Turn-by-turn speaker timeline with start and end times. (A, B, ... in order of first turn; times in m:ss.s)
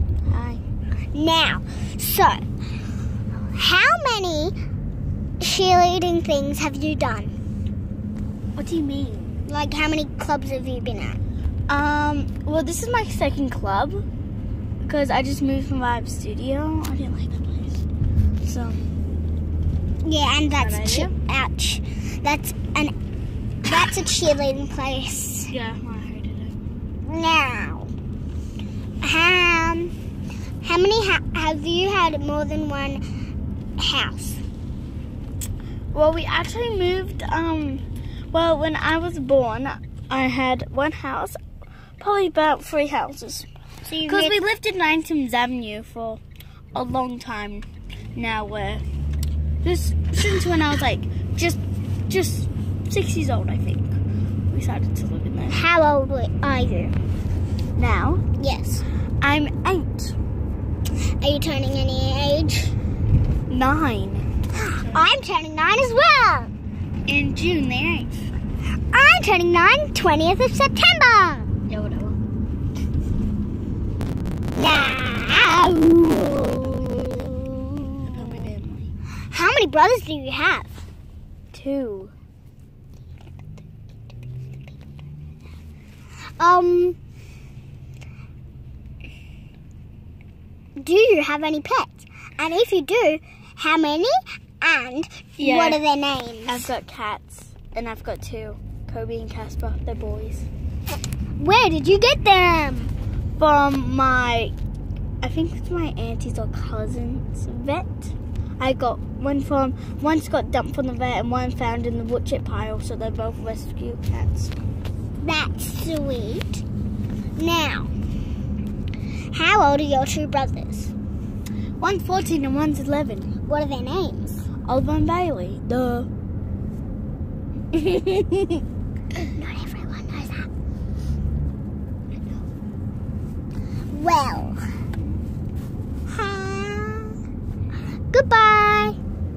0:00.3-0:00.6 A
0:01.1-0:02.4 B
0:03.5-0:04.6 B
0:05.4-0:07.4 B
0:08.6-0:09.4 A
0:09.5-0:11.2 B
0:11.7-0:14.0 A
0:14.8-0:17.8 A
0:18.4-0:18.9 A
0:20.0-0:22.9 B
0:20.6-0:21.1 A
0:23.6-0:25.5 B
0:25.5-0:26.6 A
0:27.0-0:27.9 B
0:29.0-0:29.9 B
0:30.6-0:33.0 B
0:33.8-0:34.4 B
0:35.9-0:41.4 A
0:42.0-0:43.5 A
0:43.8-0:44.4 B
0:44.0-0:46.2 A
0:46.7-0:48.9 A
0:49.6-0:53.9 A
0:54.5-0:55.6 A
0:55.5-0:56.9 B
0:57.8-0:58.2 A
0:58.4-0:58.8 B
0:59.2-1:00.2 A
1:01.2-1:02.8 B
1:03.5-1:04.3 A
1:04.6-1:06.5 B
1:07.1-1:08.2 A
1:08.9-1:11.5 B
1:11.7-1:12.2 A
1:14.6-1:18.2 B
1:16.6-1:17.1 A
1:18.0-1:18.9 A
1:19.3-1:20.7 B
1:21.5-1:22.1 A
1:26.4-1:27.0 B
1:30.8-1:36.7 B
1:35.4-1:35.8 A
1:36.5-1:40.5 A
1:41.4-1:42.9 B
1:43.4-1:44.5 A
1:45.2-1:54.5 A
1:55.2-1:56.6 B
1:57.4-1:57.9 B
1:59.3-2:00.9 B
2:01.8-2:03.3 A
2:03.5-2:04.4 B
2:04.6-2:06.1 A
2:07.8-2:08.3 B
2:09.3-2:10.5 B
2:13.9-2:14.6 B
2:16.1-2:17.2 B
2:18.1-2:19.0 B